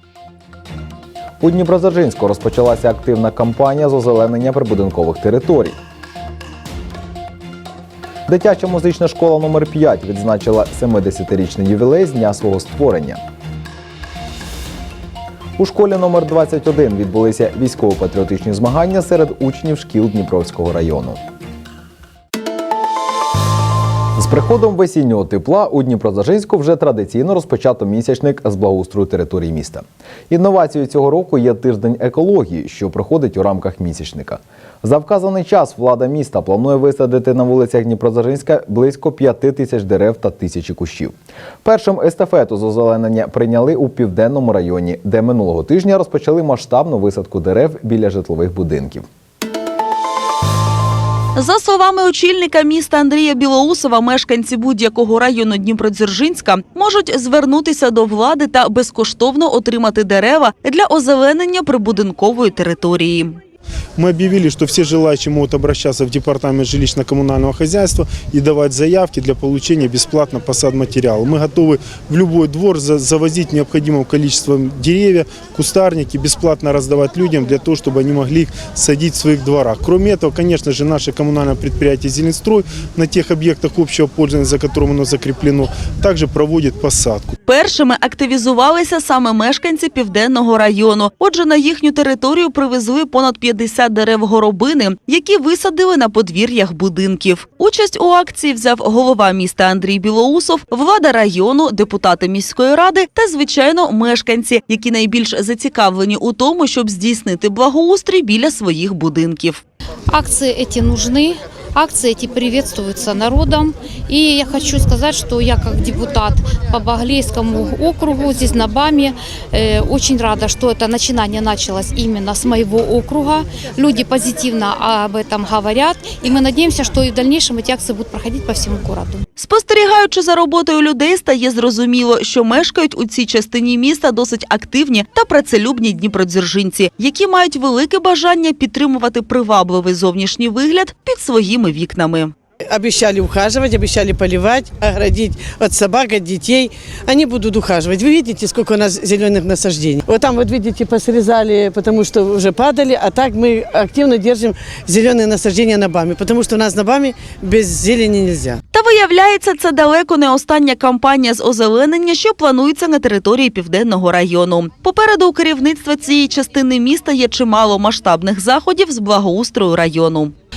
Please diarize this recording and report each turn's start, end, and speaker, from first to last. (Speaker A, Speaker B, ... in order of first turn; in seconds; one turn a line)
Speaker A: 1.4-5.8
Speaker A: 8.3-13.2
Speaker A: 15.6-21.2
Speaker A: 24.2-49.0
Speaker B: 51.4-63.4
Speaker C: 64.0-87.4
Speaker B: 87.5-109.6
Speaker D: 110.1-129.2
Speaker B: 129.4-142.3
Speaker E: 142.7-158.6
Speaker B: 158.7-170.3